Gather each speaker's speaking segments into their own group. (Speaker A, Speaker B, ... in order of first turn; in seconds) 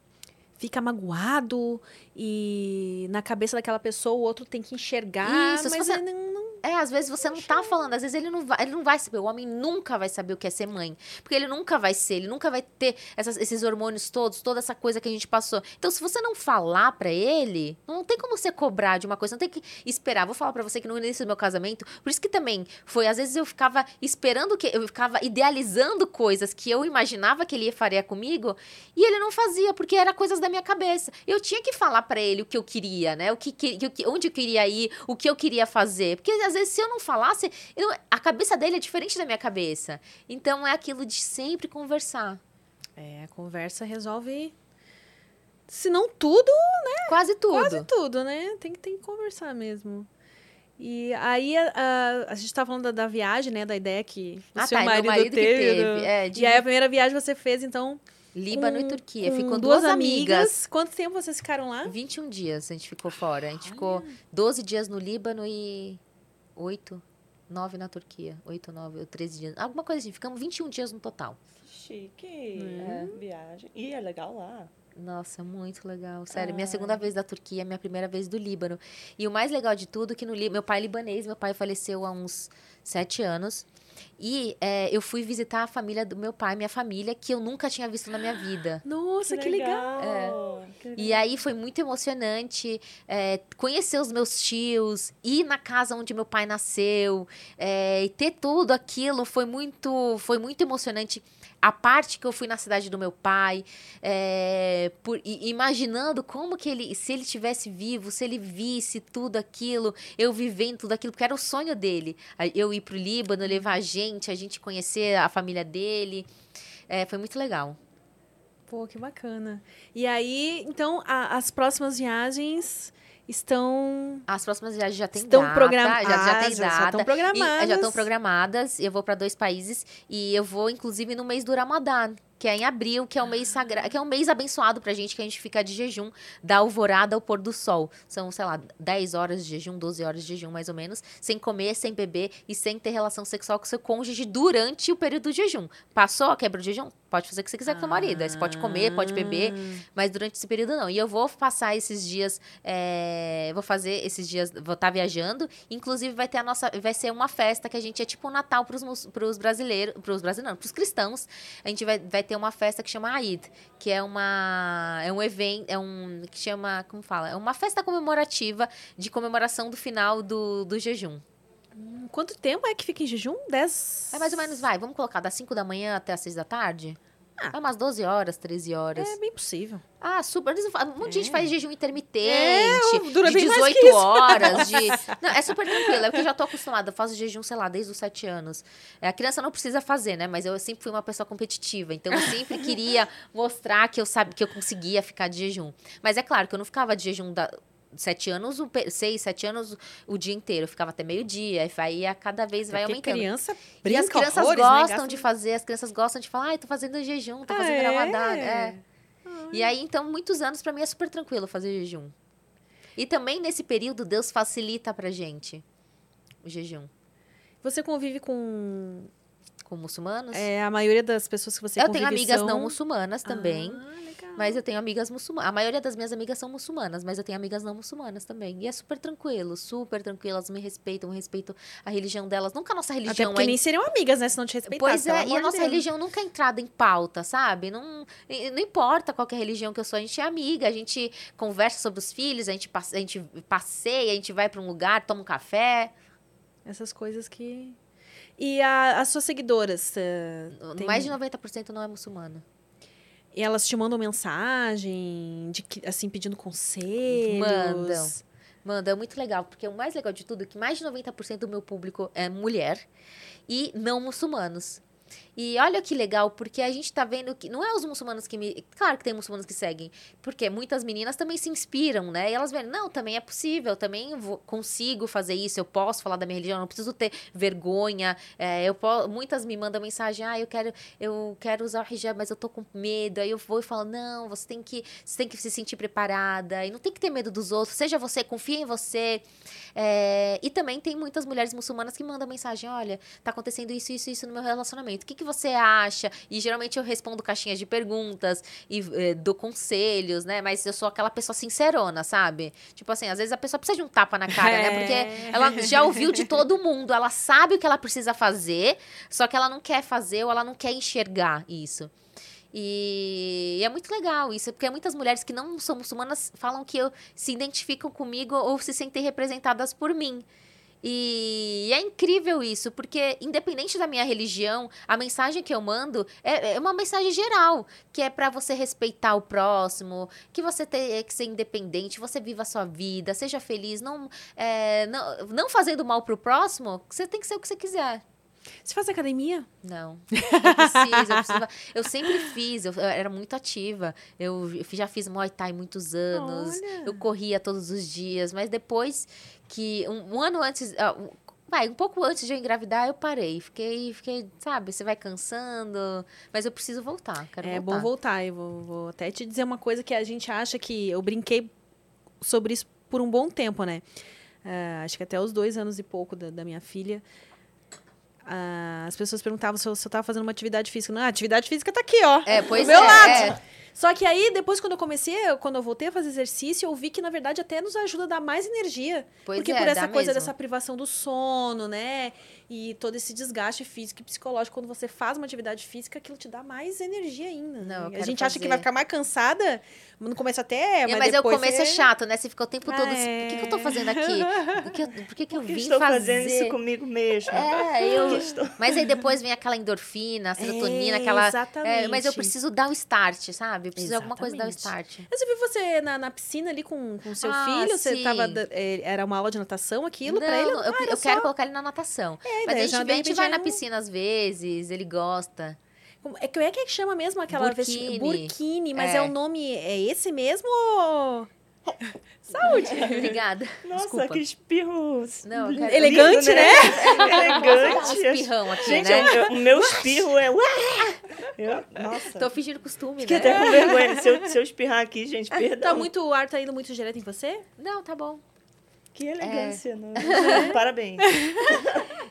Speaker A: 0.6-6.6, 7.3-7.8, 43.0-44.5, 45.7-50.1, 50.8-62.0, 63.6-64.2, 72.5-73.2, 88.8-90.2, 118.7-124.3, 125.2-128.1, 147.7-149.8, 171.8-174.6, 178.9-179.8, 181.1-181.5, 182.2-185.2, 185.7-186.1, 202.7-205.3, 207.5-209.7, 217.6-219.1, 220.3-224.6, 233.1-235.8, 246.7-247.8, 248.4-251.2, 253.3-258.2, 304.3-306.3, 338.6-339.5, 340.1-341.4, 346.1-347.0, 357.4-361.5, 362.2-363.9, 364.4-367.0, 368.3-391.9, 392.6-394.6, 400.4-402.4, 403.8-411.3, 412.2-413.6, 416.0-421.3, 422.2-423.2, 425.6-428.0, 428.6-430.1, 433.1-434.3, 435.3-437.4, 440.1-441.6
Speaker B: 5.2-6.0, 6.6-42.4, 47.1-47.9, 54.6-56.6, 58.4-60.5, 61.9-66.0, 66.6-71.4, 72.8-73.1, 75.0-83.7, 84.2-88.8, 90.0-90.4, 91.0-116.3, 116.9-117.8, 124.3-171.2, 174.1-177.0, 177.5-179.2, 180.0-203.3, 203.8-208.8, 209.5-212.1, 213.0-215.6, 216.4-216.9, 219.7-220.5, 221.8-223.8, 224.4-233.6, 234.7-245.9, 250.6-252.4, 257.1-262.9, 263.5-264.8, 265.4-289.2, 289.8-311.9, 312.5-320.2, 320.8-338.0, 339.6-357.9, 372.3-373.4, 379.2-380.3, 387.6-388.7, 390.9-396.6, 397.3-405.1, 407.2-408.4, 410.1-415.6, 417.3-419.1, 422.5-424.2, 425.3-429.2, 430.6-431.0, 432.1-433.8, 437.6-438.2, 439.2-440.5
Speaker C: 71.6-74.7, 89.2-91.3, 395.3-398.7, 422.4-423.1, 423.6-432.3, 433.0-435.9, 438.9-441.9